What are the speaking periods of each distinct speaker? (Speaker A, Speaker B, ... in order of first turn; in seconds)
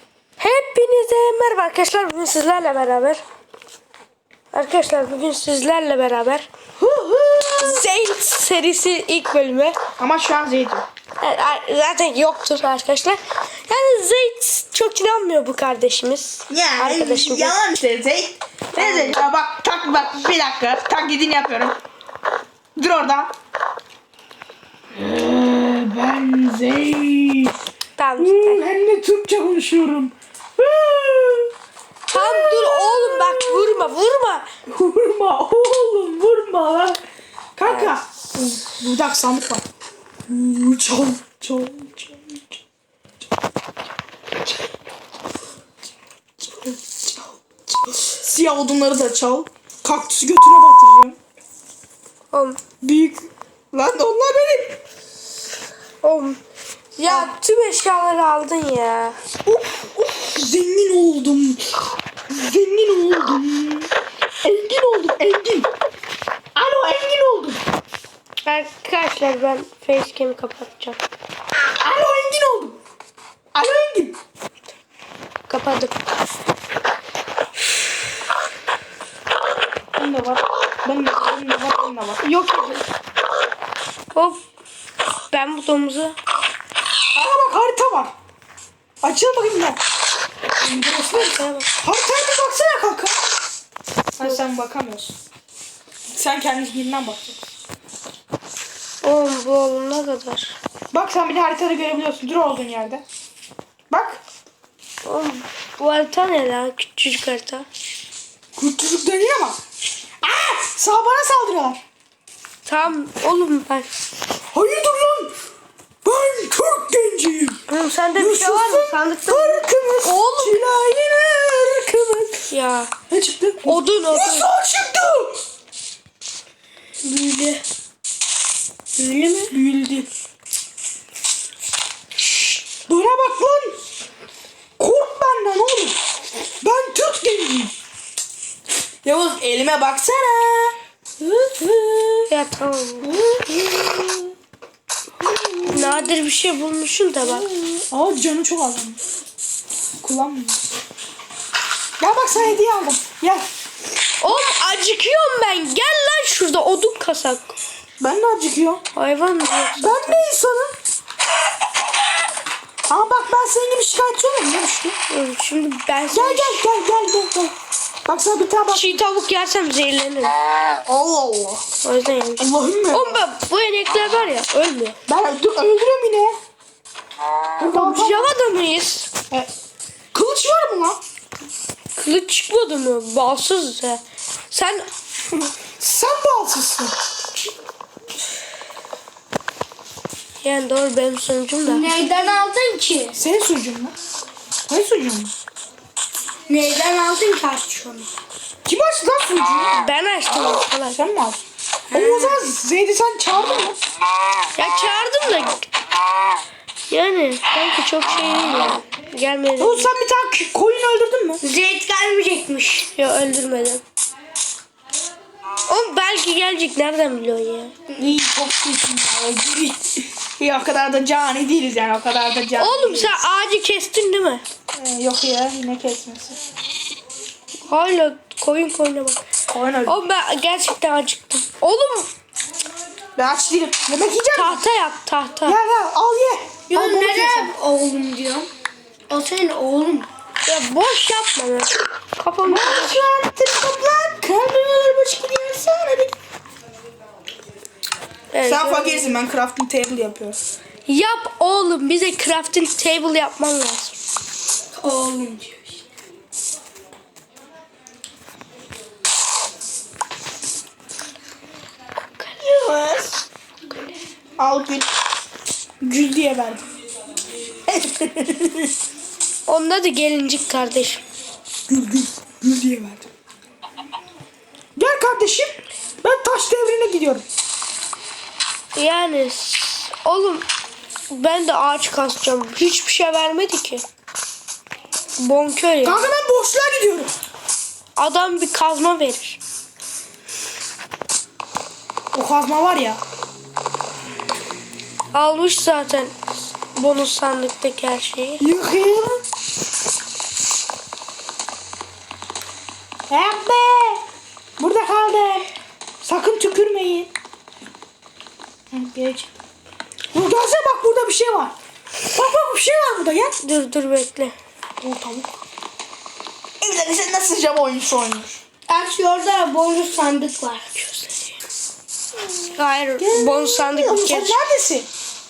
Speaker A: 0.4-3.2, 4.5-6.5, 7.6-9.8, 11.2-17.6, 18.7-19.2, 28.0-28.6, 32.1-34.5, 37.7-38.0, 52.3-52.6, 56.0-56.4, 56.9-59.2, 68.5-71.0, 75.5-76.1, 82.2-82.8, 84.1-84.4, 85.3-86.2, 91.0-91.7, 99.0-100.6, 105.0-107.7, 112.7-113.9, 117.7-120.6, 122.5-122.9, 123.7-124.5, 127.0-127.6, 129.0-129.5, 142.3-143.1, 145.7-147.5, 154.2-157.6, 158.9-160.2, 165.1-166.6, 168.7-170.3, 171.8-175.0, 177.7-179.1, 182.0-184.9, 190.4-192.0, 199.8-201.0, 204.6-205.7, 206.9-209.9, 212.8-213.8, 215.7-217.7, 222.6-224.4, 227.7-229.2, 229.9-232.1, 234.3-235.6, 240.5-243.1, 248.3-249.1, 250.9-254.0, 269.5-271.0, 278.8-280.5, 281.1-283.9, 285.2-286.1, 288.0-289.4, 295.1-296.1, 296.8-298.4, 313.4-314.4, 322.6-324.4
Speaker B: 6.8-7.9, 10.0-10.9, 16.5-21.8, 22.8-23.3, 24.9-27.5, 28.2-31.5, 32.1-33.9, 34.7-37.0, 37.6-39.6, 40.3-42.6, 46.4-51.2, 52.8-54.8, 57.1-57.3, 59.5-63.9, 64.4-65.7, 66.5-67.6, 71.8-72.8, 73.5-74.2, 80.0-82.2, 87.1-88.1, 89.0-89.8, 90.6-93.4, 94.2-95.1, 96.1-97.4, 100.9-103.0, 103.9-104.2, 108.6-109.6, 110.2-111.8, 114.5-115.4, 116.0-117.6, 118.2-122.5, 123.1-125.4, 129.5-130.1, 132.8-133.8, 134.8-136.0, 136.6-137.8, 139.0-142.3, 143.0-144.3, 145.2-146.1, 147.9-149.0, 150.0-150.6, 152.0-153.5, 158.0-158.8, 159.7-160.8, 162.9-165.0, 166.1-167.6, 168.1-169.0, 170.9-171.7, 172.4-173.2, 175.1-176.4, 177.6-178.3, 180.1-181.0, 185.8-186.9, 193.2-193.9, 194.7-195.3, 198.7-199.8, 200.9-203.8, 209.6-211.4, 217.9-223.2, 224.7-226.4, 229.5-230.0, 233.2-234.6, 235.4-237.5, 242.4-246.1, 248.5-250.4, 262.4-263.2, 264.4-264.9, 265.8-266.7, 267.7-268.7, 271.7-273.1, 274.8-277.3, 285.8-287.1, 292.1-293.0, 298.4-299.2, 303.1-304.0, 304.6-305.5, 306.0-307.1, 308.7-309.3, 310.1-311.6, 312.1-313.4, 314.8-315.3, 316.6-318.4, 322.2-324.9
Speaker C: 191.7-193.2, 196.5-198.1, 201.9-202.5, 211.4-212.9, 236.7-238.5, 239.1-240.1, 254.7-255.8, 318.7-321.3